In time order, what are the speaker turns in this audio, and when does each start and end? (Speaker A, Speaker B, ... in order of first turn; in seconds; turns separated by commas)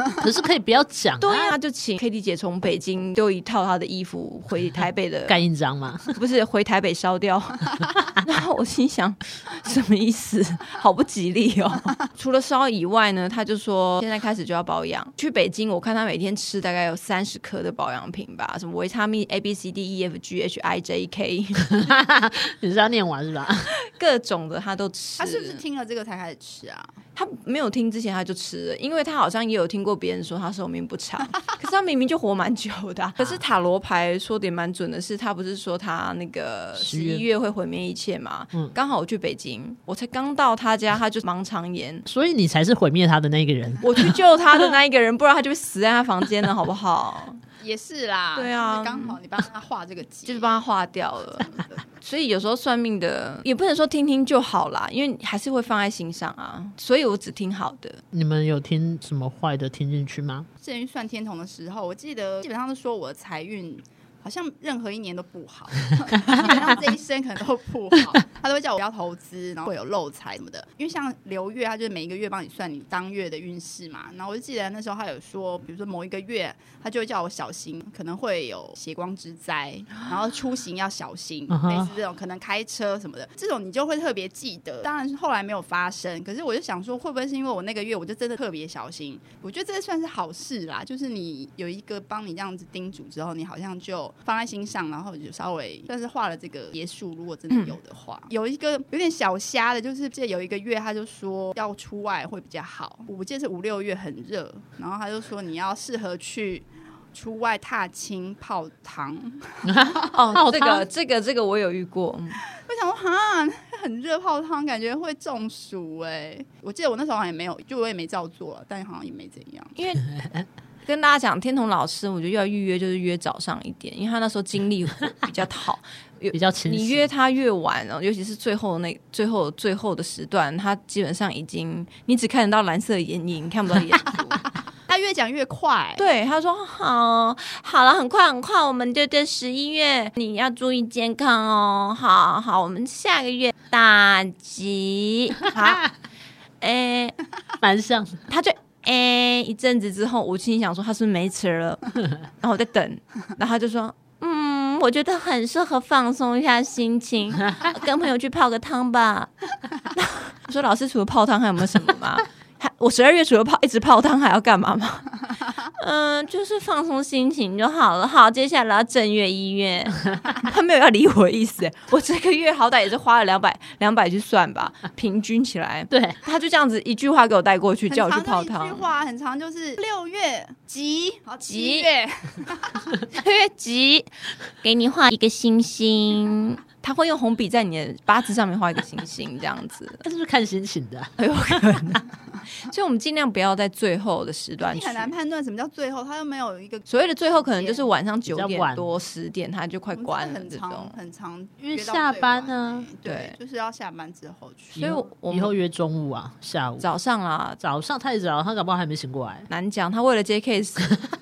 Speaker A: 0.2-1.5, Speaker B: 1.2-5.4, Speaker A: 5.3-6.2, Speaker B: 6.1-21.6, Speaker A: 21.6-23.7, Speaker B: 23.9-25.6, Speaker C: 25.2-26.9, Speaker B: 27.1-42.0, Speaker A: 36.8-37.2, Speaker A: 42.0-44.1, Speaker B: 43.8-47.4, Speaker C: 47.6-50.6, Speaker B: 48.3-49.2, Speaker B: 50.3-51.5, Speaker B: 52.0-58.0, Speaker A: 58.1-60.5, Speaker C: 60.6-110.2, Speaker A: 81.5-81.9, Speaker B: 97.5-97.8, Speaker A: 109.6-110.8, Speaker B: 110.1-112.4, Speaker C: 112.5-119.8, Speaker B: 119.8-120.0, Speaker A: 120.1-120.5, Speaker B: 120.8-134.4, Speaker A: 126.3-127.1, Speaker C: 134.9-136.1, Speaker B: 136.0-145.8, Speaker B: 146.6-147.2, Speaker A: 147.6-148.2, Speaker B: 148.3-151.8, Speaker B: 152.4-159.3, Speaker B: 159.9-178.9, Speaker A: 175.9-176.2, Speaker C: 177.9-182.9, Speaker B: 181.4-181.9, Speaker B: 183.1-184.1, Speaker B: 184.6-190.0, Speaker A: 190.0-191.1, Speaker B: 191.2-192.0, Speaker B: 192.6-195.1, Speaker C: 194.7-197.9, Speaker B: 196.9-200.9, Speaker A: 198.3-198.9, Speaker C: 199.9-204.9, Speaker A: 201.6-202.9, Speaker B: 203.0-203.3, Speaker A: 204.7-206.9, Speaker B: 204.8-205.5, Speaker B: 206.8-207.6, Speaker A: 207.6-209.5, Speaker B: 209.5-210.9